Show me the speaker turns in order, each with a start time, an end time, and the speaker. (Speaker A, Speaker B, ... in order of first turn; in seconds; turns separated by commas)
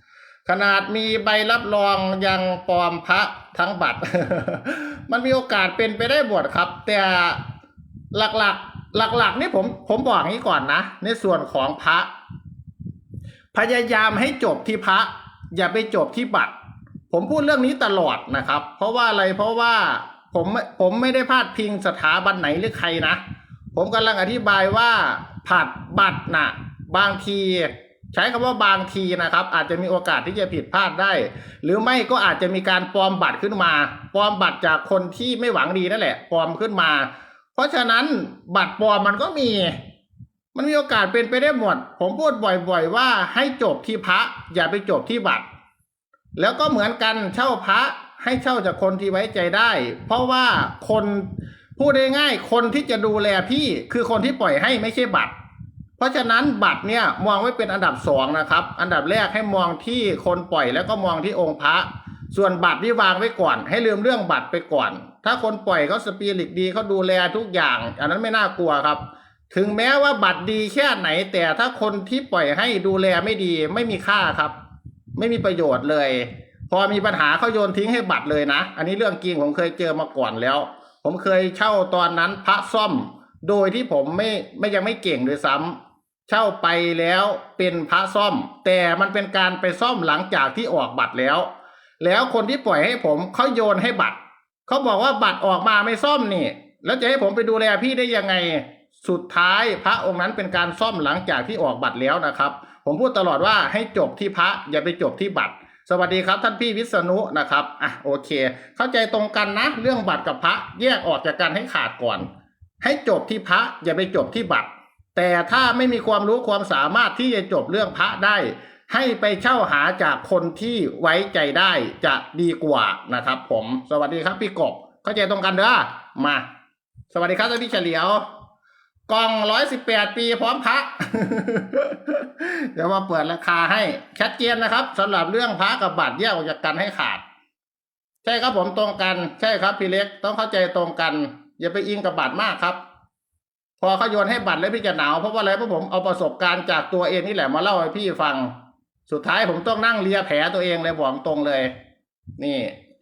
Speaker A: 0.5-7.4, Speaker A: 8.1-12.1, Speaker A: 13.5-16.6, Speaker A: 17.1-23.2, Speaker A: 23.7-39.8, Speaker A: 40.5-45.4, Speaker A: 46.4-55.3, Speaker A: 56.0-74.5, Speaker A: 75.2-91.5, Speaker A: 92.0-112.3, Speaker A: 112.8-126.5, Speaker A: 127.1-128.2, Speaker A: 129.1-137.2, Speaker A: 138.2-142.8, Speaker A: 143.8-148.5, Speaker A: 149.1-151.7, Speaker A: 152.4-152.8